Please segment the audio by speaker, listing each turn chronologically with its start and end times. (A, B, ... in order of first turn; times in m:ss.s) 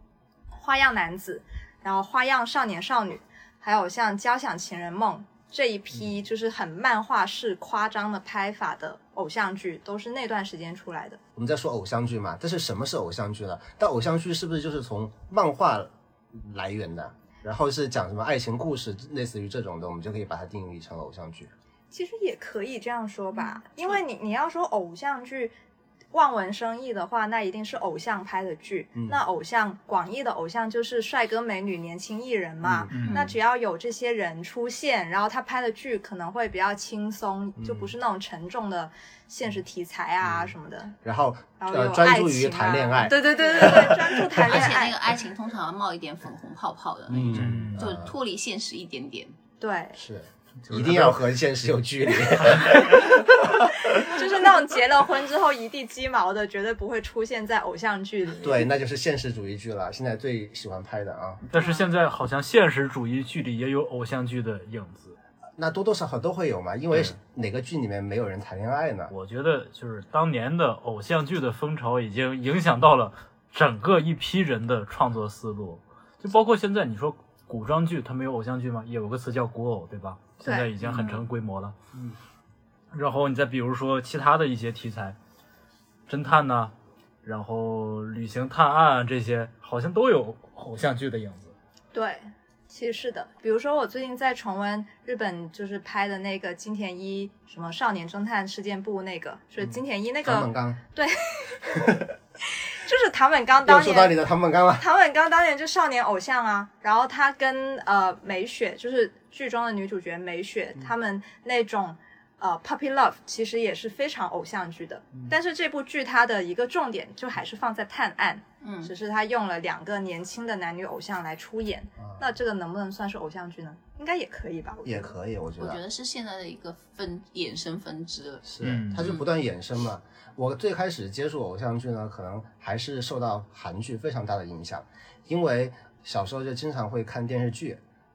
0:00.5-0:11.2 A
0:11.4-0:21.5 B
0:21.9-0:25.5 A
0:26.1-0:41.0 A
0:32.6-0:33.1 B
0:32.9-0:33.3 C
0:33.0-0:33.3 D
0:37.6-0:37.9 B
0:40.2-0:44.6 B
0:41.6-0:45.0 A
0:43.5-0:43.8 D
0:44.4-0:49.3 D
0:47.1-0:48.1 B
0:47.3-0:47.8 C
0:49.6-0:50.0 A
0:50.0-0:54.2 B
0:50.6-0:51.2 C
0:52.4-0:52.9 C
0:53.8-0:58.7 A
0:58.4-1:01.4 B
1:01.4-1:05.2 C
1:01.5-1:01.8 A
1:05.6-1:09.1 B
1:09.1-1:21.7 C
1:20.4-1:21.2 A
1:22.9-1:25.2 C
1:26.1-1:26.7 C
1:27.2-1:31.5 C
1:31.9-1:41.8 A
1:40.2-1:40.8 B
1:41.7-1:42.1 B
1:42.5-1:44.2 A
1:43.6-1:44.8 B
1:44.8-2:05.1 A
1:58.6-1:58.9 D
2:04.8-2:05.8 B
2:05.6-2:09.2 D
2:08.4-2:17.8 B
2:08.6-2:09.1 C